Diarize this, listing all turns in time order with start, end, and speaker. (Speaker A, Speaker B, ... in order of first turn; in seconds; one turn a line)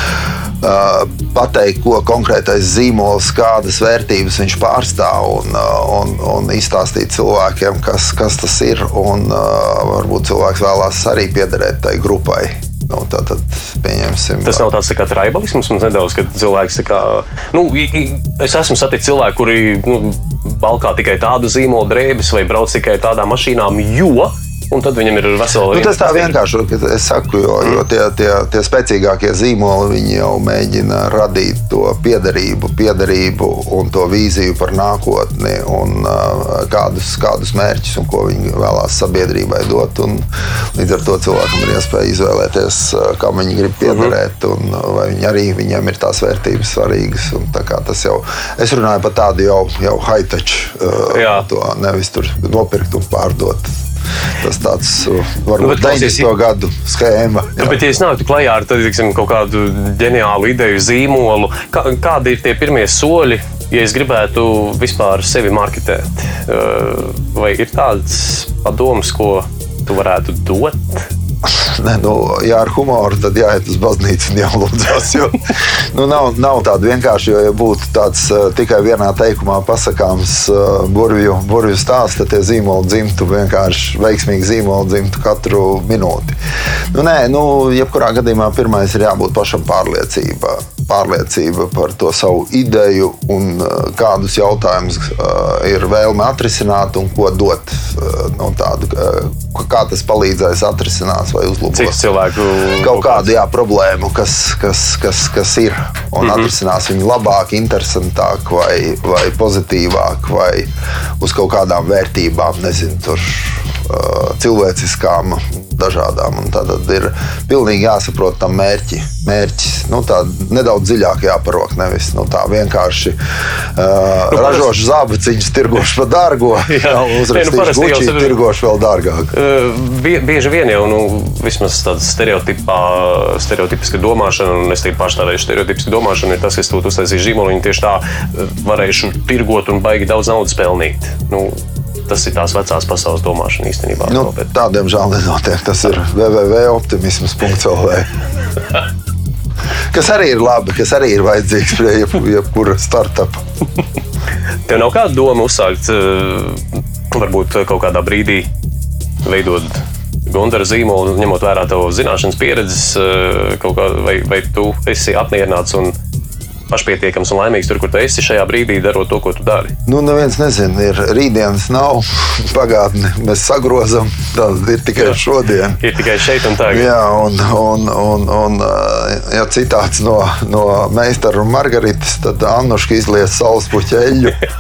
Speaker A: 0.6-14.7
Speaker B: 14.4-26.4
Speaker A: 25.7-53.7
Speaker B: 43.8-44.1
Speaker B: 51.1-51.5
Speaker A: 54.4-57.9
Speaker B: 55.6-56.3
Speaker B: 57.6-71.1
Speaker A: 71.5-86.4
Speaker A: 86.9-102.0
Speaker B: 101.7-103.3
Speaker A: 102.8-123.2
Speaker B: 106.2-106.5
Speaker A: 123.8-129.3
Speaker B: 124.3-124.7
Speaker B: 126.7-128.4
Speaker B: 129.3-144.5
Speaker A: 144.1-148.1
Speaker A: 149.9-153.4
Speaker B: 154.7-158.5
Speaker B: 159.2-165.9
Speaker B: 166.7-169.7
Speaker A: 169.9-175.8
Speaker B: 175.8-176.9
Speaker A: 176.6-184.4